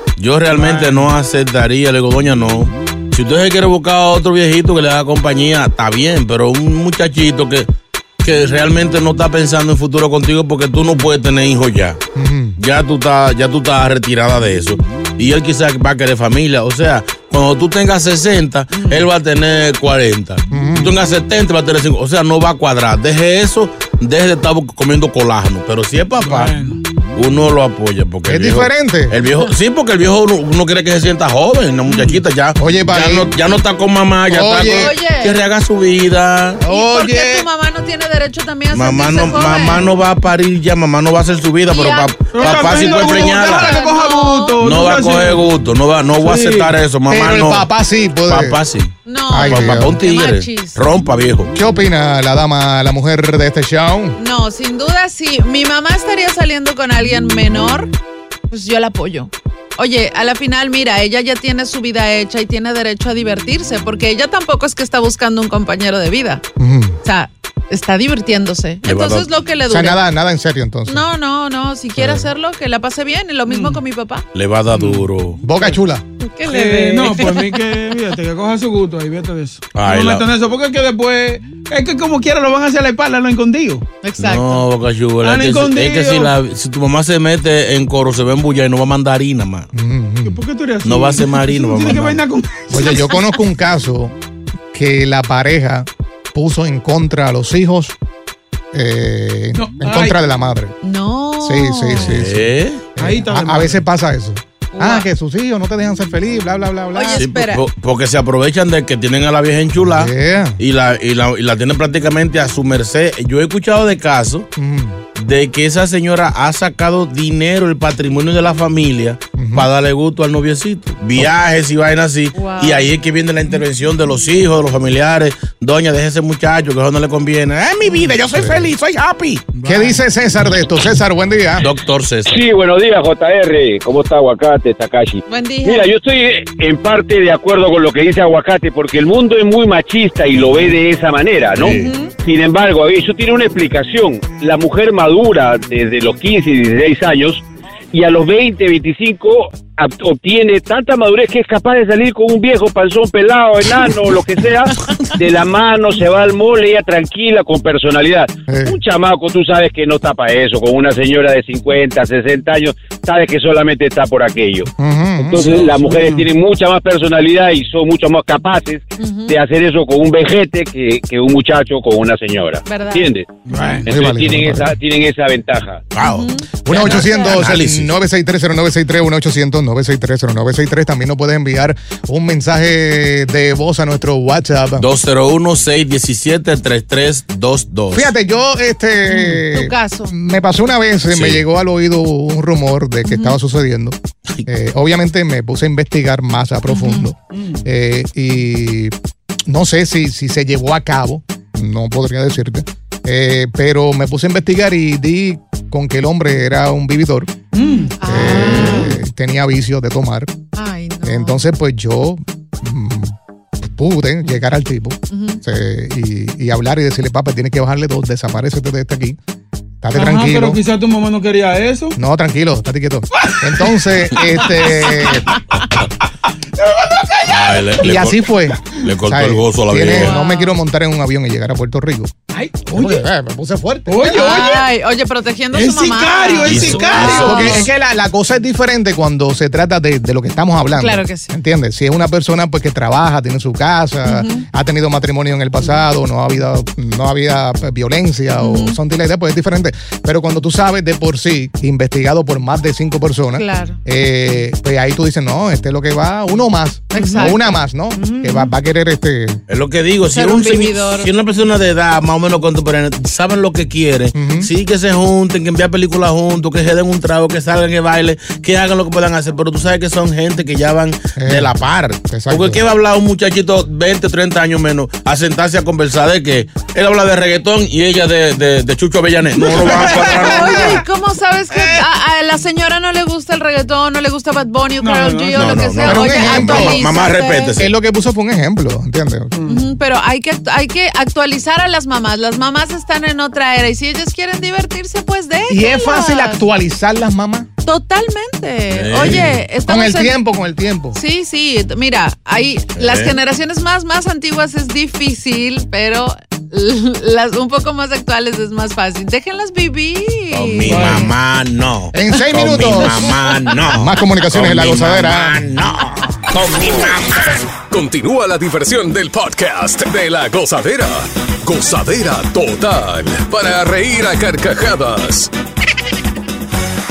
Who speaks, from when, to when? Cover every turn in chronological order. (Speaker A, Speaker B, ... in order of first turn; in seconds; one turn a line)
Speaker A: 0.2-7.7
Speaker B: 0.5-1.1
Speaker A: 8.2-12.0
Speaker C: 12.2-12.6
Speaker A: 12.6-26.5
Speaker B: 18.7-19.1
Speaker C: 20.5-21.0
Speaker B: 26.2-26.8
Speaker A: 27.1-36.6
Speaker C: 28.2-29.2
Speaker B: 31.9-32.3
Speaker C: 32.6-33.3
Speaker C: 34.3-35.0
Speaker D: 34.7-35.4
Speaker C: 36.6-37.5
Speaker D: 36.7-39.9
Speaker A: 38.7-43.8
Speaker D: 41.7-44.7
Speaker B: 42.3-45.5
Speaker A: 44.6-47.7
Speaker B: 46.2-46.8
Speaker C: 47.1-48.6
Speaker A: 48.3-51.5
Speaker D: 49.1-50.8
Speaker C: 49.3-50.0
Speaker C: 51.5-54.2
Speaker D: 54.2-57.9
Speaker D: 58.5-66.4
Speaker C: 66.6-67.0
Speaker D: 67.0-70.0
Speaker A: 68.8-69.3
Speaker C: 69.7-71.1
Speaker D: 70.9-74.2
Speaker C: 72.0-72.3
Speaker B: 73.5-73.8
Speaker A: 74.3-75.4
Speaker B: 74.7-75.8
Speaker C: 75.4-76.0
Speaker D: 76.2-77.6
Speaker B: 76.5-83.8
Speaker A: 79.7-80.3
Speaker D: 84.0-84.6
Speaker A: 84.2-89.7
Speaker B: 85.2-86.3
Speaker C: 89.7-90.4
Speaker B: 90.2-93.0
Speaker A: 90.8-92.2
Speaker C: 92.7-94.2
Speaker C: 94.7-98.0
Speaker C: 98.7-100.8
Speaker B: 99.5-100.2
Speaker D: 100.8-102.2
Speaker C: 101.4-107.2
Speaker A: 102.0-102.9
Speaker B: 103.0-103.8
Speaker D: 104.8-105.1
Speaker D: 106.9-107.7
Speaker A: 107.2-114.5
Speaker C: 109.8-110.6
Speaker C: 114.6-115.0
Speaker A: 115.2-129.6
Speaker C: 119.4-119.7
Speaker D: 122.3-122.9
Speaker C: 128.0-128.7
Speaker B: 129.6-130.0
Speaker C: 129.7-131.7
Speaker A: 131.6-132.4
Speaker E: 132.3-141.5
Speaker D: 135.3-135.9
Speaker A: 141.5-141.9
Speaker D: 141.6-142.1
Speaker E: 142.2-147.4
Speaker E: 147.9-164.7
Speaker C: 158.5-158.8
Speaker C: 164.8-165.5
Speaker E: 165.2-173.3
Speaker B: 165.3-166.3
Speaker D: 169.0-169.4
Speaker D: 172.7-173.1
Speaker B: 173.5-173.9
Speaker E: 173.8-175.8
Speaker C: 173.9-174.8
Speaker A: 175.9-178.0
Speaker D: 176.0-177.4
Speaker C: 176.7-184.9
Speaker A: 184.8-188.1
Speaker C: 187.9-198.9
Speaker D: 189.1-190.1
Speaker A: 191.1-191.4
Speaker D: 193.1-193.4
Speaker D: 196.7-197.1
Speaker B: 197.3-197.7
Speaker C: 199.5-207.3
Speaker B: 207.5-208.9
Speaker D: 207.6-209.0
Speaker C: 208.1-210.3
Speaker D: 210.6-211.5
Speaker C: 211.0-213.2
Speaker C: 213.7-219.2
Speaker D: 215.1-215.4
Speaker C: 219.8-220.6
Speaker B: 219.9-222.0
Speaker C: 222.0-225.3
Speaker B: 223.1-223.9
Speaker B: 224.6-225.2
Speaker B: 226.6-227.8
Speaker A: 227.3-230.2
Speaker C: 227.8-232.1
Speaker D: 229.9-230.6
Speaker B: 232.3-233.1
Speaker C: 232.8-234.4
Speaker B: 233.9-234.7
Speaker D: 234.1-237.7
Speaker B: 235.5-237.7
Speaker A: 236.4-237.6
Speaker C: 236.9-259.4
Speaker D: 240.8-241.3
Speaker D: 244.1-244.4
Speaker D: 248.4-248.8
Speaker D: 253.3-253.8
Speaker D: 256.9-258.5
Speaker A: 259.5-280.8
Speaker D: 260.1-261.1
Speaker C: 264.1-264.5
Speaker C: 271.2-272.6
Speaker B: 279.3-280.7
Speaker D: 279.8-287.6
Speaker B: 281.5-281.8
Speaker B: 284.8-285.7
Speaker A: 285.3-287.7
Speaker C: 285.9-286.8
Speaker C: 287.6-289.4
Speaker B: 289.3-289.7
Speaker D: 289.5-296.4
Speaker C: 295.5-297.5
Speaker D: 297.6-300.2
Speaker A: 298.7-299.4
Speaker C: 298.9-301.0
Speaker D: 300.9-311.1
Speaker A: 302.8-303.2
Speaker A: 310.3-317.5
Speaker B: 310.7-311.1
Speaker C: 311.9-313.2
Speaker C: 313.7-315.4
Speaker F: 317.6-325.3